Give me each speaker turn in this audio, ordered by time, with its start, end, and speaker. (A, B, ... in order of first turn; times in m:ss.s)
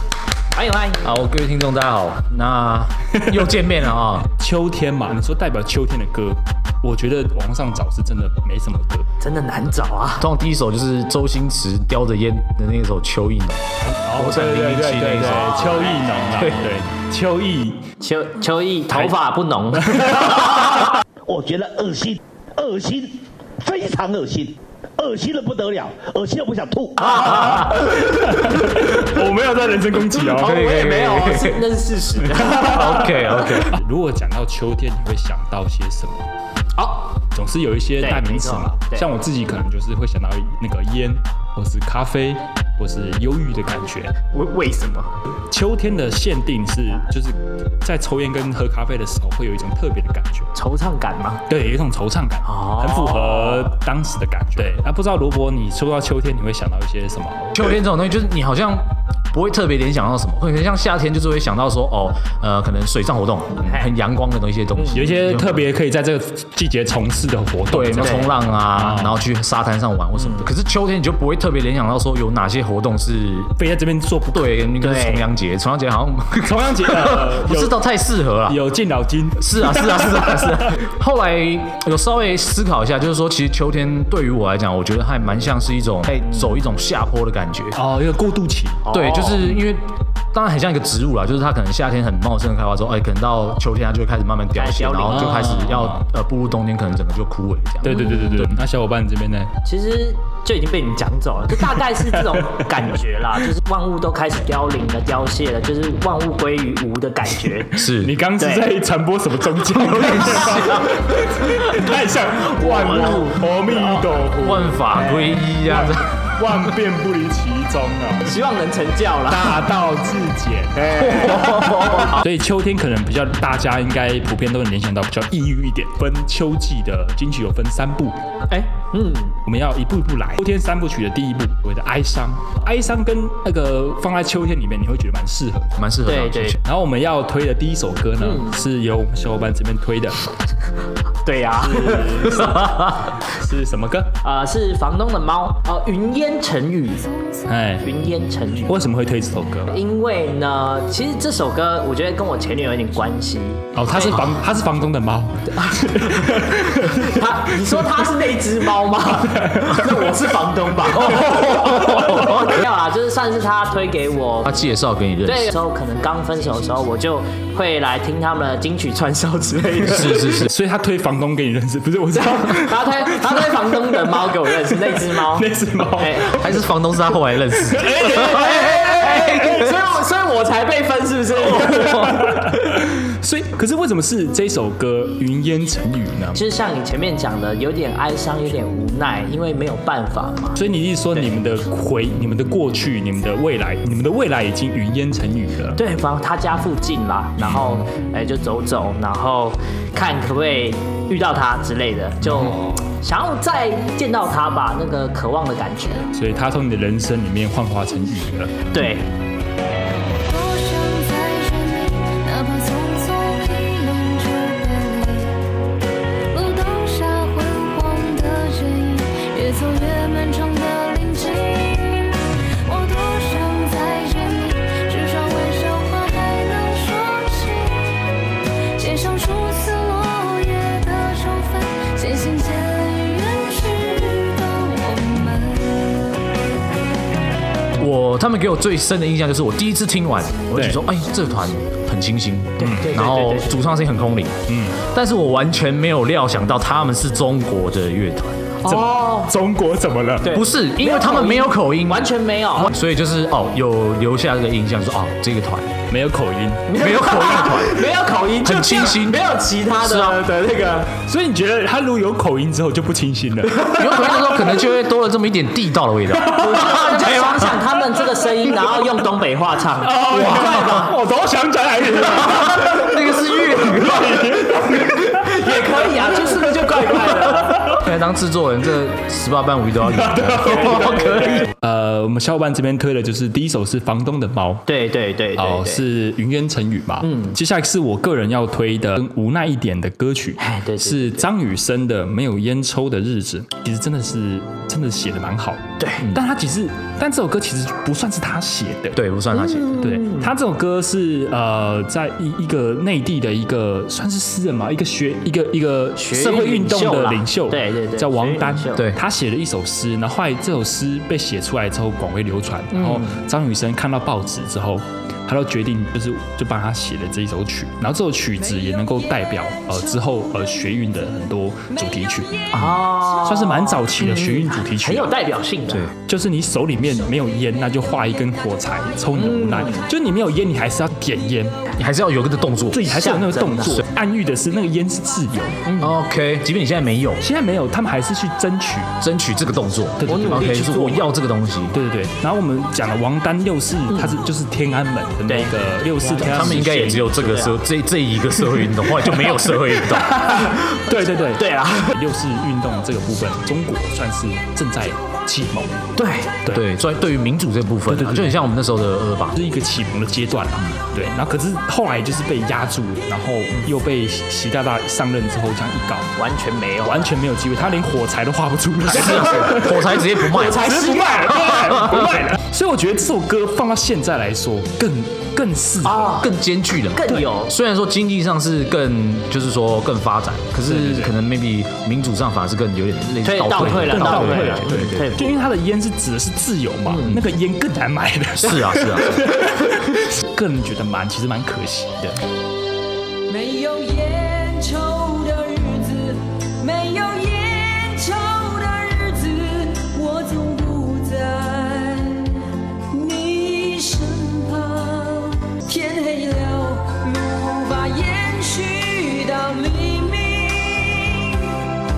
0:00.5-0:01.1 A
0:01.0-0:04.3 B
0:04.3-0:09.1 C
0:09.2-0:10.3 A
0:10.2-0:16.6 B
0:13.9-0:17.8 C
0:15.5-0:16.5 A
0:18.0-0:20.7 A
0:19.9-0:20.3 C
0:21.3-0:27.4 D
0:27.2-0:30.6 C
0:30.3-0:33.3 A
0:30.4-0:31.6 B
0:32.4-0:33.7 B
0:33.6-0:36.3 C
0:36.8-0:37.1 A
0:37.3-0:44.2 C
0:38.0-0:39.1 A
0:44.3-0:45.2 A
0:45.3-0:50.5 C
0:50.6-0:51.4 A
0:51.5-0:57.6 C
0:52.4-0:53.7 A
0:57.5-1:05.6 B
1:03.6-1:03.9 A
1:04.8-1:05.0 A
1:04.9-1:09.2 C
1:07.7-1:13.5 B
1:08.0-1:08.3 A
1:10.2-1:10.5 A
1:13.6-1:14.7 C
1:14.3-1:18.6 B
1:14.8-1:15.3 A
1:16.4-1:17.8 C
1:18.5-1:20.7 C
1:19.4-1:27.8 B
1:27.7-1:28.9 C
1:28.8-1:29.5 A
1:28.9-1:38.6 B
1:34.5-1:35.5 A
1:35.1-1:36.0 C
1:37.8-1:39.5 C
1:39.6-1:47.8 A
1:47.8-1:48.2 B
1:48.0-1:58.3 C
1:48.4-1:48.7 A
1:49.8-1:50.9 B
1:52.6-1:53.4 A
1:54.2-1:56.1 B
1:58.2-1:59.7 A
1:59.3-2:00.9 C
2:00.8-2:02.2 A
2:01.0-2:02.0 B
2:01.9-2:08.2 C
2:08.5-2:09.3 A
2:09.4-2:15.7 C
2:15.8-2:16.6 B
2:16.1-2:16.6 A
2:16.6-2:20.2 C
2:18.2-2:18.6 A
2:21.2-2:23.1 A
2:21.5-2:24.2 C
2:24.2-2:27.1 A
2:27.5-2:27.9 C
2:27.8-2:28.9 A
2:28.7-2:29.8 C
2:29.7-2:34.3 A
2:33.7-2:37.2 C
2:35.6-2:44.6 A
2:39.3-2:39.9 C
2:41.1-2:41.5 C
2:41.9-2:42.2 B
2:44.5-2:45.6 B
2:45.2-2:50.5 A
2:49.8-2:50.5 B
2:50.3-2:53.5 C
2:52.1-2:56.4 A
2:54.9-2:56.5 C
2:56.3-2:58.4 B
2:57.7-2:59.1 C
2:58.0-3:02.4 A
3:01.8-3:06.4 C
3:06.4-3:10.6 A
3:10.6-3:15.8 C
3:15.8-3:26.1 A
3:17.4-3:17.8 C
3:22.2-3:22.8 C
3:26.1-3:28.6 C
3:28.7-3:29.1 A
3:30.2-3:35.4 E
3:36.3-3:48.1 E
3:48.8-3:56.1 E
3:57.8-4:08.7 B
4:00.5-4:00.8 C
4:02.6-4:02.9 C
4:02.6-4:03.7 A
4:04.5-4:04.8 C
4:08.6-4:10.3 C
4:08.7-4:09.3 A
4:10.2-4:12.7 A
4:10.3-4:15.8 B
4:15.9-4:16.7 C
4:16.7-4:20.9 A
4:16.8-4:20.3 B
4:20.9-4:23.8 C
4:23.7-4:27.5 B
4:26.3-4:30.9 A
4:29.8-4:35.1 C
4:30.1-4:30.9 B
4:32.2-4:34.5 B
4:35.1-4:37.8 A
4:37.7-4:41.5 B
4:39.9-4:44.7 C
4:40.5-4:41.4 A
4:44.7-4:45.8 A
4:45.4-4:59.0 C
4:47.0-4:47.4 A
4:50.4-4:51.3 A
4:55.8-4:56.1 A
4:59.0-5:00.0 B
4:59.3-5:00.3 A
4:59.8-5:22.5 C
5:06.0-5:08.8 A
5:08.8-5:09.0 B
5:12.8-5:13.1 A
5:22.5-5:25.9 A
5:23.2-5:25.2 C
5:26.0-5:31.6 C
5:29.1-5:29.9 A
5:31.8-5:32.9 B
5:32.7-5:35.6 C
5:32.9-5:33.8 A
5:35.7-5:36.0 A
5:35.8-5:37.2 B
5:37.2-5:38.9 C
5:39.0-5:41.8 B
5:40.0-5:41.1 C
5:40.1-5:40.4 A
5:41.7-5:47.0 C
5:43.9-5:44.2 A
5:45.3-5:47.6 A
5:46.2-5:50.2 B
5:50.0-5:55.9 C
5:50.5-5:52.0 A
5:56.0-5:56.3 A
5:56.5-5:59.4 B
5:57.9-5:58.4 C
5:59.4-6:06.1 C
6:06.2-6:07.1 A
6:06.8-6:16.2 C
6:08.9-6:11.0 B
6:10.2-6:11.5 A
6:11.5-6:12.2 B
6:15.8-6:16.3 A
6:16.2-6:25.2 B
6:17.0-6:17.5 A
6:20.6-6:21.1 C
6:23.2-6:25.4 A
6:23.5-6:32.2 C
6:26.9-6:27.2 A
6:28.4-6:29.4 B
6:33.3-6:51.3 F
6:47.9-6:48.6 E
6:49.2-6:50.0 E